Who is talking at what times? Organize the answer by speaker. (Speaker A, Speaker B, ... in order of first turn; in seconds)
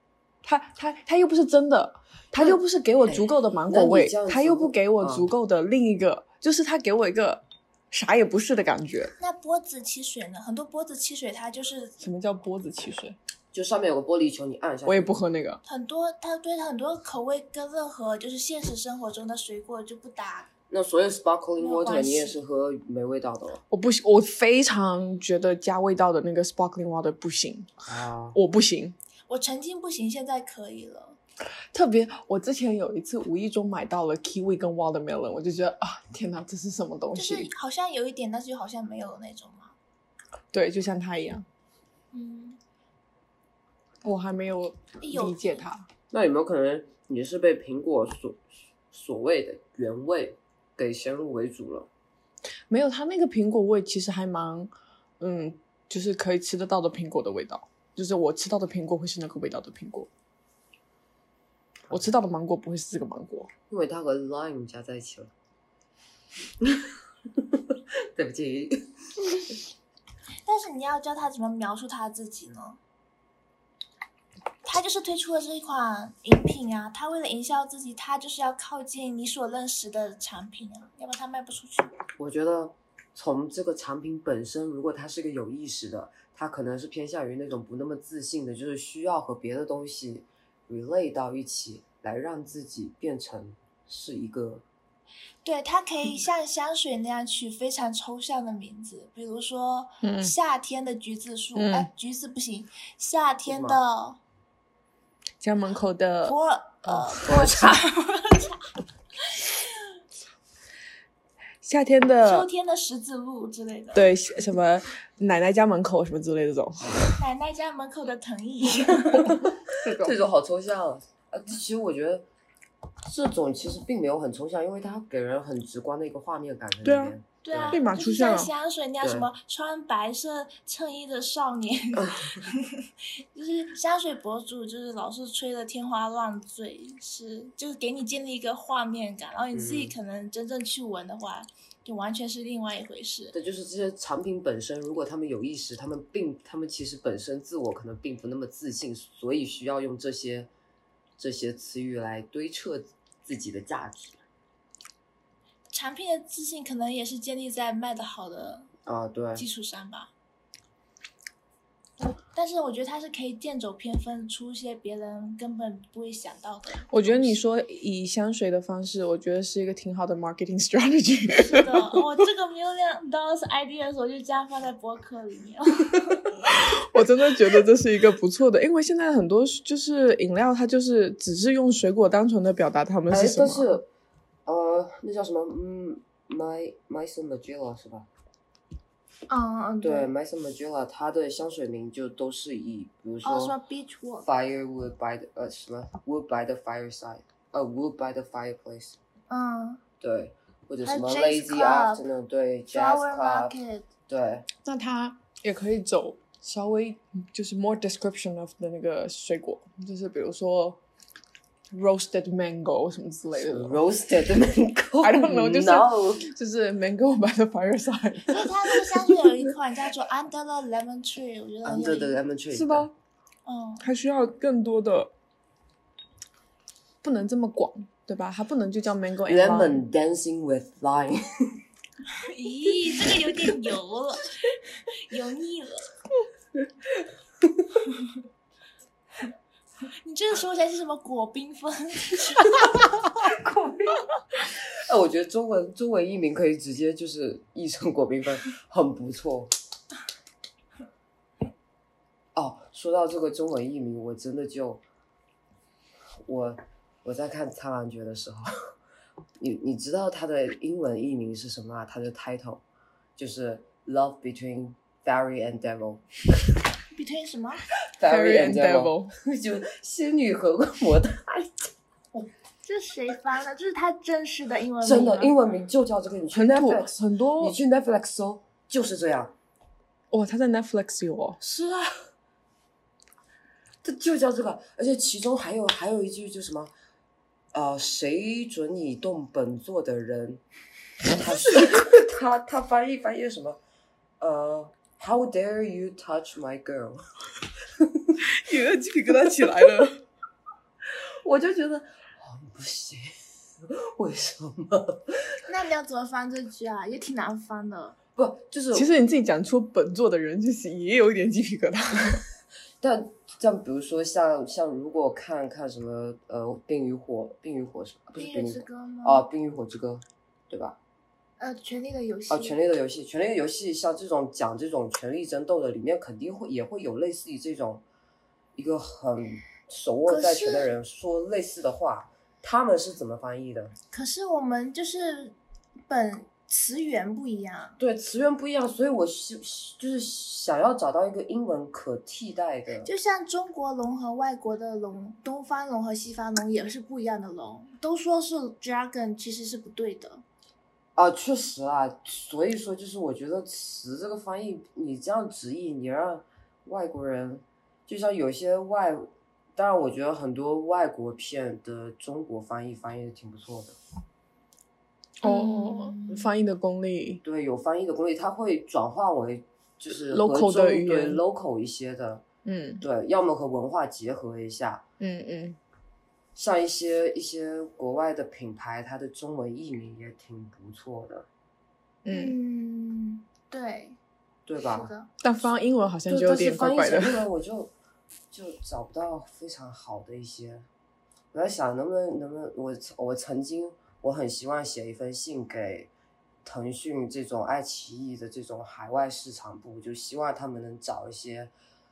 Speaker A: 0.4-9.1, 12.0-13.2, 14.8-15.6, 23.7-28.9, 31.7-37.5, 40.5-41.4, 44.0-45.9, 52.7-60.1, 61.9-63.5, 100.0-100.3, 101.5-101.9, 105.4-106.3, 106.9-107.2, 111.6-112.5, 113.9-117.2, 119.7-120.2, 126.8-127.1, 127.7-128.5, 166.9-172.0, 176.4-183.8, 204.6-210.8, 211.7-213.8, 215.0-218.5, 222.5-222.9, 223.8-225.1, 227.0-229.8, 268.0-269.1, 276.3-277.6, 280.1-281.4, 291.5-291.8, 298.2-300.0, 308.7-312.2, 365.2-367.2, 370.1-371.2, 372.4-372.8, 375.0-375.6, 382.0-382.4, 385.2-387.3
Speaker B: 2.3-5.3, 13.5-15.1, 20.7-23.6, 27.9-28.4, 46.1-51.9, 63.7-65.3, 66.6-68.9, 82.2-94.6, 103.5-103.8, 107.2-107.8, 119.0-122.2, 123.0-127.8, 129.0-129.3, 132.0-132.4, 139.5-139.9, 143.3-150.5, 151.2-154.2, 158.8-159.4, 183.1-183.8, 184.4-188.1, 189.8-193.6, 194.2-199.0, 200.0-203.5, 204.1-204.5, 213.3-216.2, 221.6-222.9, 229.2-231.6, 233.0-233.3, 243.1-249.5, 252.3-254.8, 256.2-258.5, 259.4-262.6, 263.2-266.4, 267.9-271.7, 274.8-279.3, 281.4-281.9, 283.8-286.7, 287.5-290.4, 291.1-293.6, 294.2-297.0, 297.8-298.2, 300.9-305.4, 308.1-308.9, 312.8-320.8, 322.3-327.8, 328.6-333.7, 337.8-342.9, 350.9-363.8, 367.2-372.2, 372.8-374.8, 376.4-381.3, 384.4-384.9, 386.1-387.7, 388.3-390.7, 391.3-395.9, 396.4-401.5
Speaker C: 9.2-11.9, 15.7-20.5, 21.6-22.4, 29.3-31.2, 37.1-39.7, 42.1-42.6, 45.0-45.6, 70.4-72.8, 74.6-81.9, 95.4-104.2, 106.2-108.7, 109.2-109.8, 112.2-114.1, 117.2-119.4, 127.4-143.3, 155.7-158.7, 159.3-160.1, 162.2-167.3, 171.4-176.2, 189.3-190.1, 193.2-194.3, 199.3-199.8, 200.8-202.0, 202.7-203.9, 218.3-222.2, 223.4-223.9, 232.2-235.9, 239.9-242.8, 266.9-267.6, 272.6-275.3, 305.4-308.0, 318.1-319.2, 321.4-322.6, 330.1-330.7, 333.9-335.4, 335.9-337.8, 342.8-350.2, 365.2-366.3, 382.1-384.0, 384.6-385.1